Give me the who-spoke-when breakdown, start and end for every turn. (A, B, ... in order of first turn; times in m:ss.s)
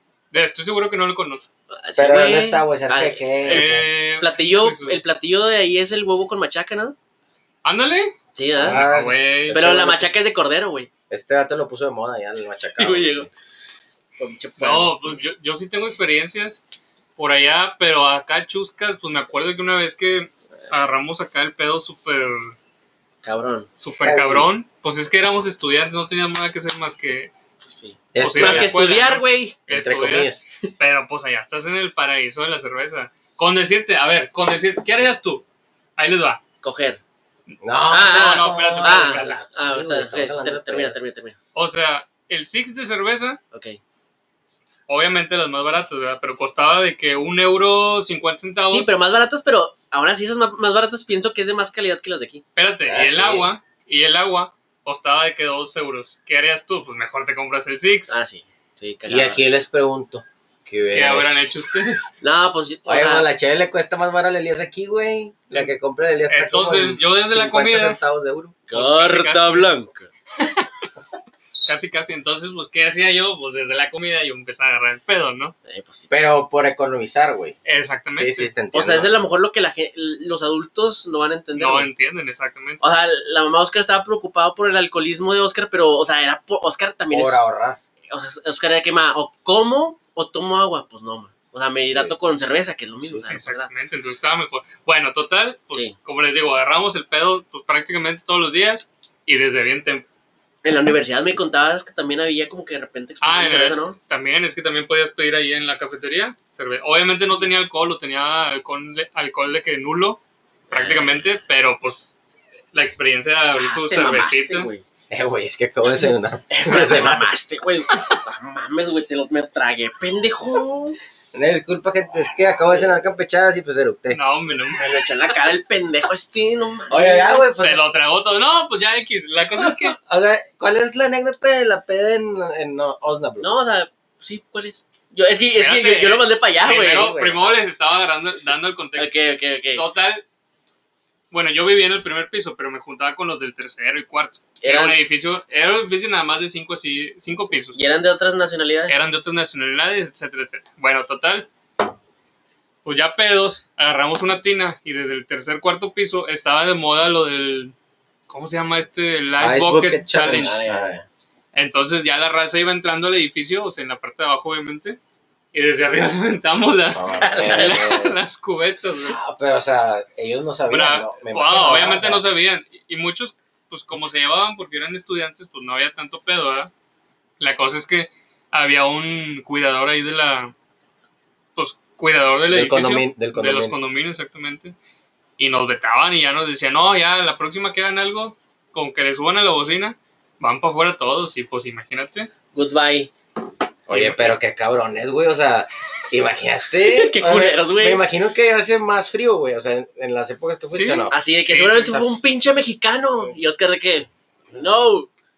0:00.3-0:01.5 A
0:01.7-0:07.0 B
0:02.0-0:03.9 C
0:03.4-0:05.0 A
0:07.6-0:08.1 A
0:08.4-0:08.8 B
0:08.6-0:10.1 C
0:08.7-0:09.6 A
0:09.5-0:10.9 B
0:11.1-0:13.3 C
0:12.6-0:13.3 B
0:14.2-0:15.0 B
0:14.6-0:16.6 A
0:17.2-0:22.6 A
0:23.2-0:23.7 B
0:23.8-0:27.3 A
0:24.0-0:24.5 C
0:27.6-0:29.6 B
0:28.1-0:28.8 C
0:28.2-0:35.4 A
0:29.7-0:30.4 C
0:36.0-0:36.4 A
0:36.6-0:37.0 B
0:37.6-0:41.0 C
0:37.9-0:41.4 B
0:38.0-0:39.4 A
0:41.6-0:43.4 A
0:43.5-0:43.8 B
0:44.9-0:48.9 A
0:48.6-0:52.4 B
0:52.6-0:58.1 A
0:52.9-0:53.5 C
0:58.1-0:59.6 B
0:59.1-1:01.4 C
1:00.9-1:02.1 A
1:02.2-1:03.3 B
1:02.9-1:08.6 C
1:06.3-1:08.0 A
1:08.7-1:10.1 B
1:08.7-1:09.8 A
1:11.6-1:15.5 A
1:15.6-1:16.1 B
1:16.1-1:17.6 C
1:17.6-1:18.5 A
1:18.2-1:19.1 C
1:18.7-1:21.9 B
1:21.6-1:22.8 A
1:22.8-1:27.5 B
1:27.1-1:27.8 C
1:28.1-1:33.7 B
1:33.3-1:40.1 A
1:40.6-1:44.0 B
1:43.2-1:52.1 A
1:50.7-1:51.3 B
1:52.7-1:54.7 A
1:53.5-1:54.8 B
1:55.1-1:57.3 C
1:56.5-2:01.0 B
2:01.3-2:04.2 C
2:04.1-2:04.8 A
2:04.7-2:07.4 B
2:06.9-2:07.8 C
2:07.5-2:10.0 A
2:09.9-2:13.5 C
2:13.4-2:17.1 B
2:15.6-2:20.2 A
2:16.7-2:17.6 C
2:19.0-2:19.8 B
2:21.3-2:27.8 A
2:24.6-2:25.0 B
2:27.7-2:29.0 B
2:28.9-2:31.5 A
2:32.8-2:37.7 A
2:38.3-2:40.6 A
2:39.4-2:41.0 C
2:40.2-2:41.0 B
2:41.5-2:45.0 A
2:45.5-2:49.2 A
2:46.9-2:48.2 C
2:47.1-2:48.0 B
2:49.0-2:52.2 C
2:50.7-2:56.7 A
2:57.4-3:00.5 A
3:01.6-3:04.8 A
3:02.5-3:03.8 C
3:05.4-3:12.3 A
3:12.5-3:13.1 B
3:13.9-3:21.1 C
3:13.9-3:14.4 A
3:16.8-3:18.0 B
3:20.7-3:22.1 A
3:21.1-3:25.1 B